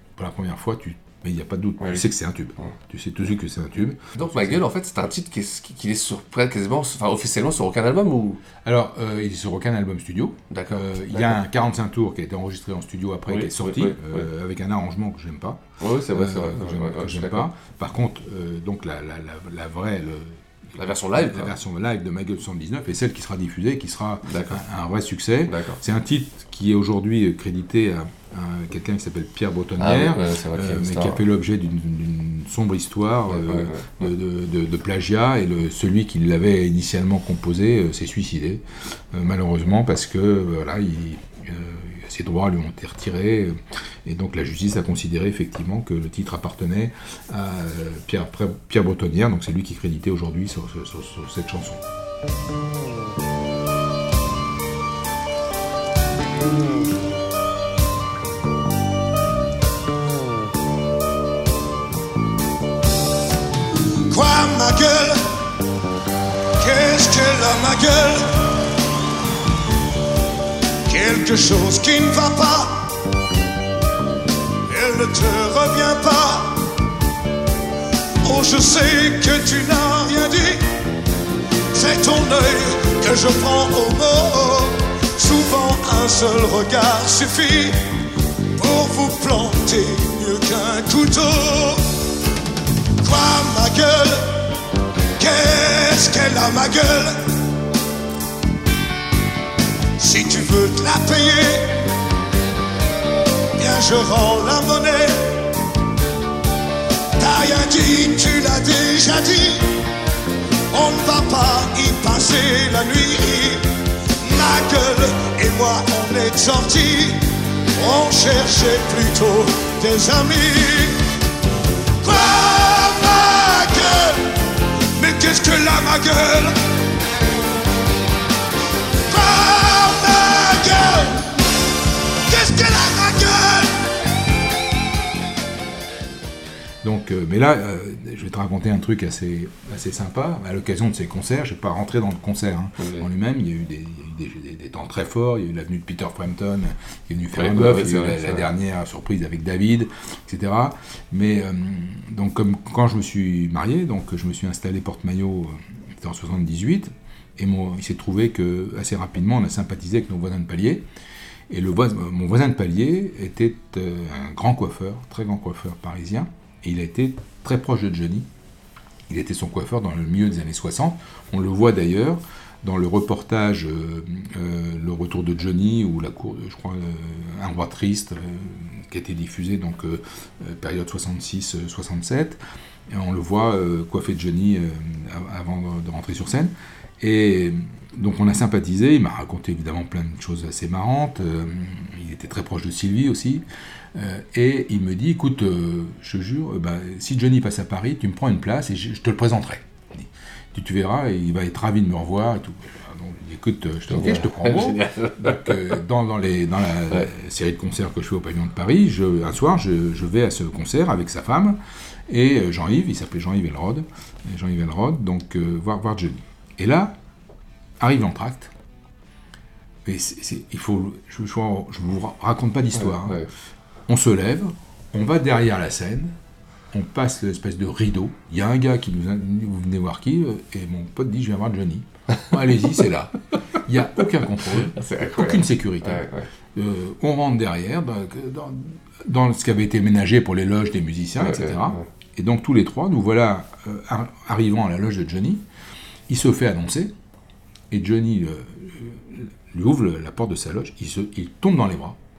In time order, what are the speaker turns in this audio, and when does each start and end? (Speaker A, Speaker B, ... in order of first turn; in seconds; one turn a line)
Speaker A: 0.2-4.6
Speaker B: 4.2-8.4
Speaker A: 8.6-51.8
Speaker B: 10.5-11.4
Speaker B: 13.3-14.3
Speaker B: 15.8-17.5
Speaker B: 20.8-21.5
Speaker B: 24.3-24.6
Speaker B: 25.5-25.8
Speaker B: 29.8-31.2
Speaker B: 33.3-34.0
Speaker C: 64.1-65.3
Speaker C: 66.6-68.5
Speaker C: 70.9-72.8
Speaker C: 74.7-76.7
Speaker C: 78.2-80.6
Speaker C: 81.8-87.8
Speaker C: 88.6-91.8
Speaker C: 93.0-94.5
Speaker C: 95.2-97.3
Speaker C: 100.0-101.9
Speaker C: 103.6-105.5
Speaker C: 107.2-109.7
Speaker C: 110.7-113.7
Speaker C: 114.2-117.2
Speaker C: 117.8-121.0
Speaker C: 122.0-124.3
Speaker C: 125.0-126.5
Speaker C: 129.1-131.3
Speaker C: 132.3-133.8
Speaker A: 136.8-160.9
Speaker B: 142.8-143.1
Speaker B: 147.3-148.5
Speaker A: 161.5-168.3
Speaker A: 169.1-182.4
Speaker A: 182.9-217.0
Speaker B: 203.9-205.6
Speaker A: 217.8-218.5
Speaker A: 219.9-223.2
Speaker B: 222.8-223.3
Speaker A: 223.9-226.2
Speaker A: 226.7-233.1
Speaker A: 233.7-245.4
Speaker B: 234.8-236.3
Speaker B: 241.2-241.9
Speaker A: 246.1-246.9
Speaker A: 247.7-252.0